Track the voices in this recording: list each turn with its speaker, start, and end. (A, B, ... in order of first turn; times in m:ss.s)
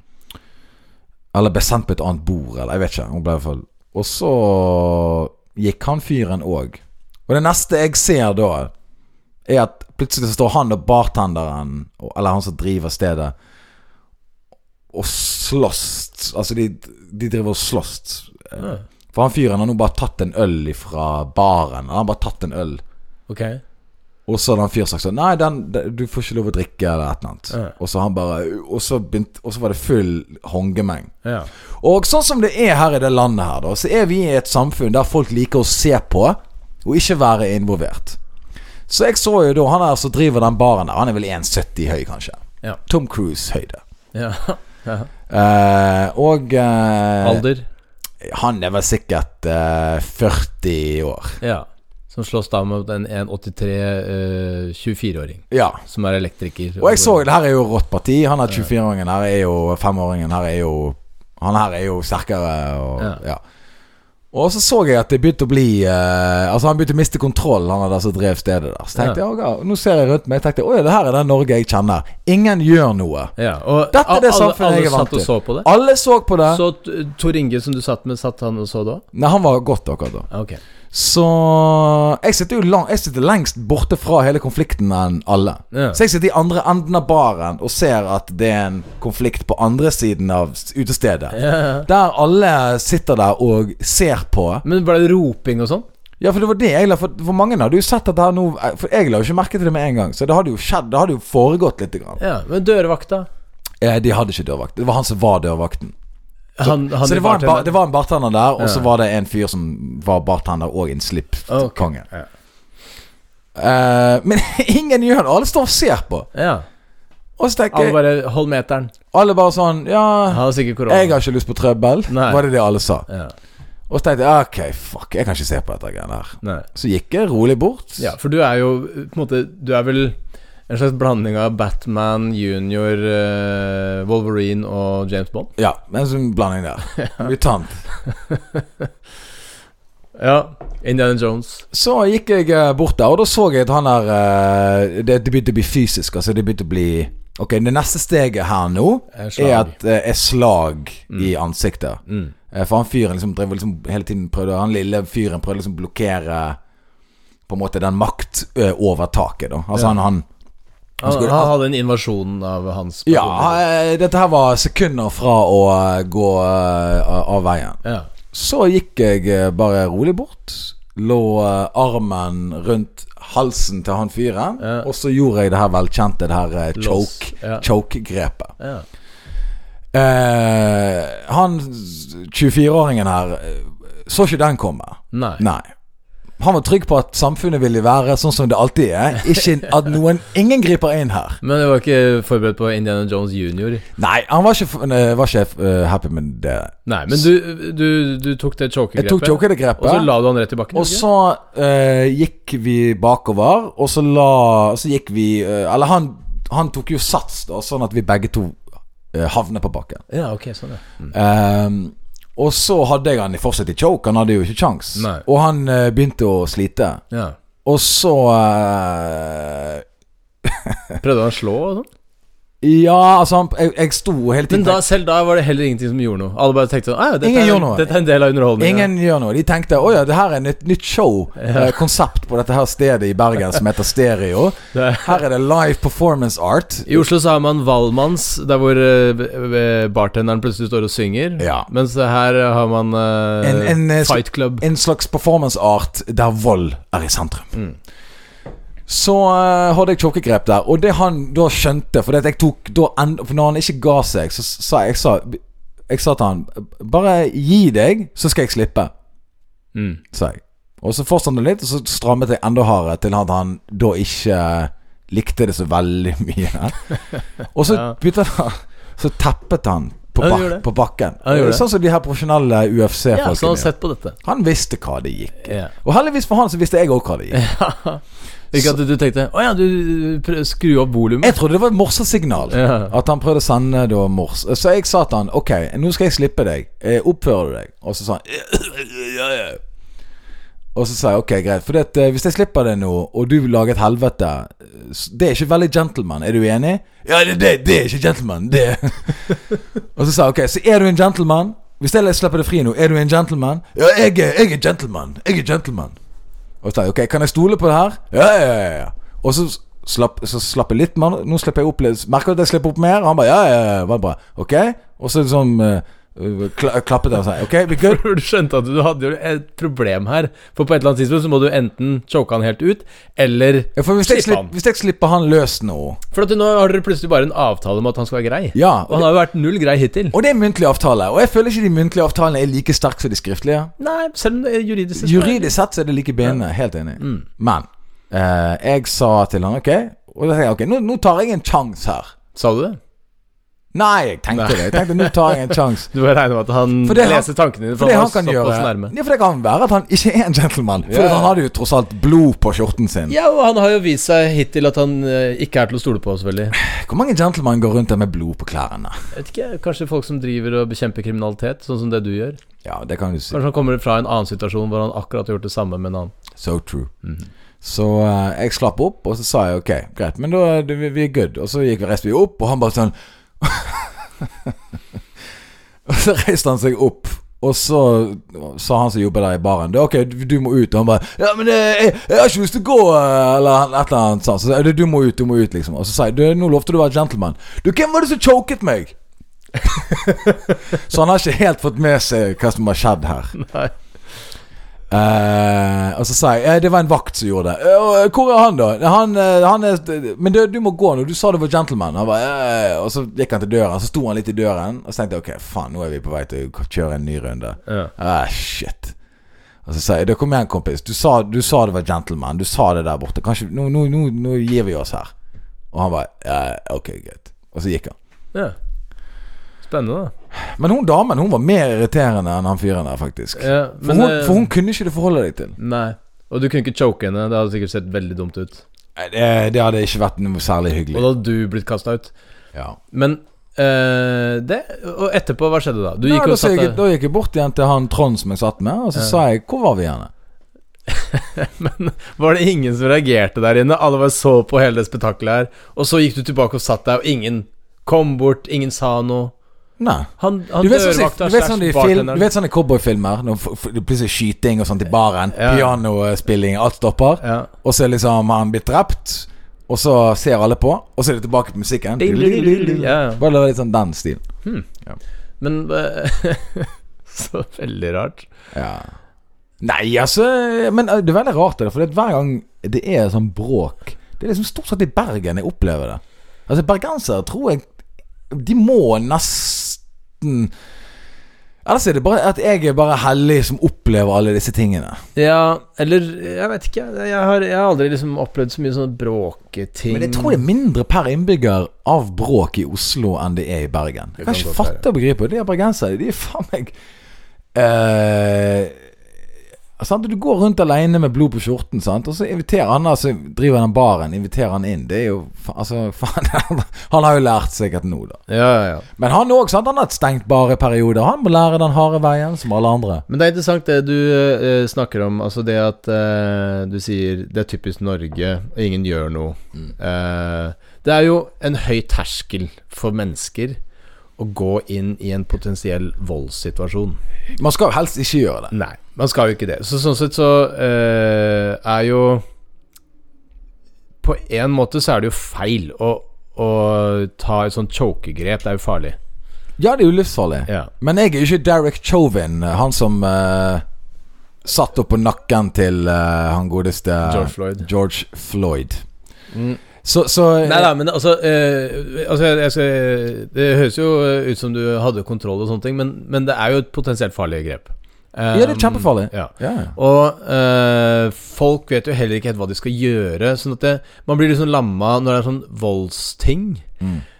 0:01.3-0:08.7 A
0:09.4-0:13.3 A
0:14.9-0:22.8 A
0:18.6-0:18.8 B
0:23.3-0:23.6 B
0:24.3-0:31.1 A
0:31.2-0:31.5 B
0:31.8-0:38.2 A
0:38.9-0:43.8 A
0:44.1-0:45.1 B
0:45.3-0:47.4 A
0:47.2-0:47.6 B
0:48.2-0:51.4 A
0:51.4-0:57.2 B
0:55.5-0:55.8 A
0:56.8-1:03.4 A
1:04.3-1:13.3 A
1:13.4-1:15.7 B
1:13.9-1:16.6 A
1:16.5-1:19.0 B
1:19.1-1:20.3 A
1:20.3-1:20.6 B
1:20.9-1:34.6 A
1:25.7-1:26.0 B
1:31.3-1:31.9 B
1:34.6-1:35.8 B
1:36.2-1:42.2 A
1:42.2-1:43.3 B
1:43.8-1:45.9 A
1:46.6-1:47.7 B
1:46.6-1:52.0 A
1:48.6-1:48.9 B
1:51.5-1:52.3 B
1:53.6-1:56.3 A
1:56.3-1:56.6 B
1:57.4-1:58.0 A
1:57.7-1:58.9 B
1:59.1-2:03.0 A
2:00.3-2:01.2 B
2:02.1-2:02.4 B
2:03.1-2:03.3 B
2:03.9-2:08.1 A
2:06.4-2:06.7 B
2:08.0-2:10.2 B
2:10.7-2:15.5 B
2:15.6-2:17.8 A
2:18.3-2:18.9 B
2:20.2-2:21.6 B
2:21.7-2:32.0 A
2:29.1-2:29.7 B
2:32.1-2:32.3 B
2:32.5-2:36.6 A
2:37.5-2:40.2 A
2:41.0-2:41.5 A
2:41.0-2:43.6 B
2:43.0-2:47.8 A
2:48.3-2:58.5 A
2:54.6-2:54.9 B
2:56.8-2:57.6 B
2:58.6-2:58.8 B
2:59.9-3:05.6 A
3:05.1-3:05.4 B
3:06.4-3:11.4 A
3:11.4-3:13.8 B
3:14.0-3:17.2 A
3:16.8-3:21.0 B
3:19.0-3:20.1 A
3:20.7-3:28.6 A
3:29.1-3:30.0 A
3:30.1-3:31.1 B
3:31.1-3:37.0 A
3:35.0-3:35.2 B
3:37.1-3:37.4 B
3:37.6-3:39.8 A
3:40.4-3:41.0 A
3:41.0-3:41.9 B
3:42.6-3:44.8 A
3:44.5-3:48.9 B
3:47.2-3:47.9 A
3:48.6-3:57.0 A
3:51.4-3:51.8 B
3:54.7-3:55.2 B
3:56.9-4:04.6 B
4:01.4-4:01.7 A
4:03.4-4:07.5 A
4:08.9-4:18.9 A
4:19.7-4:20.0 B
4:20.1-4:33.7 A
4:27.7-4:27.9 B
4:30.2-4:30.6 B
4:31.2-4:31.6 B
4:33.1-4:34.2 B
4:34.2-4:37.4 A
4:35.4-4:35.7 B
4:37.3-4:41.4 B
4:41.2-4:49.6 A
4:42.5-4:42.9 B
4:50.7-4:59.4 A
5:00.0-5:06.0 A
5:06.6-5:18.0 A
5:17.7-5:24.5 B
5:23.7-5:26.0 A
5:26.1-5:30.2 B
5:28.5-5:29.1 A
5:30.1-5:33.7 A
5:33.8-5:35.5 B
5:35.0-5:42.1 A
5:37.0-5:37.2 B
5:42.3-5:42.8 B
5:43.7-5:45.9 A
5:44.3-5:48.9 B
5:46.8-5:53.1 A
5:50.8-5:51.3 B
5:53.1-5:56.6 B
5:56.5-5:58.9 A
5:59.1-6:02.4 B
6:02.6-6:03.4 A
6:03.3-6:06.2 B
6:06.4-6:06.9 A
6:07.6-6:14.5 A
6:15.8-6:28.9 A
6:29.6-6:30.1 A
6:30.7-6:33.4 A
6:33.4-6:33.7 B
6:34.9-6:48.9 A
6:47.7-6:47.9 B
6:49.6-6:55.1 A
6:55.7-6:57.9 A
6:59.6-7:00.1 B
7:00.3-7:05.6 A
7:03.4-7:04.5 B
7:05.6-7:08.6 B
7:09.0-7:11.0 A
7:10.9-7:12.1 B
7:12.9-7:16.8 B
7:16.0-7:20.1 A
7:20.9-7:29.3 B
7:29.8-7:44.2 A
7:30.2-7:32.3 B
7:35.3-7:35.7 B
7:37.2-7:37.5 B
7:42.0-7:43.2 B
7:45.4-7:48.3 B
7:48.5-7:48.9 A
7:49.6-7:57.6 A
7:58.3-8:00.5 A
8:01.6-8:05.0 A
8:05.2-8:10.4 B
8:09.9-8:16.7 A
8:14.2-8:14.8 B
8:17.5-8:18.8 A
8:19.8-8:28.2 A
8:28.3-8:28.8 B
8:29.0-8:33.0 A
8:33.1-8:43.6 B
8:44.2-8:47.0 B
8:47.4-8:48.5 A
8:48.5-8:52.2 B
8:54.0-8:59.0 B
8:59.6-9:03.6 A
9:04.4-9:08.8 A
9:07.0-9:07.7 B
9:09.3-9:09.6 B
9:09.8-9:10.7 A
9:10.4-9:26.6 B
9:18.3-9:19.7 A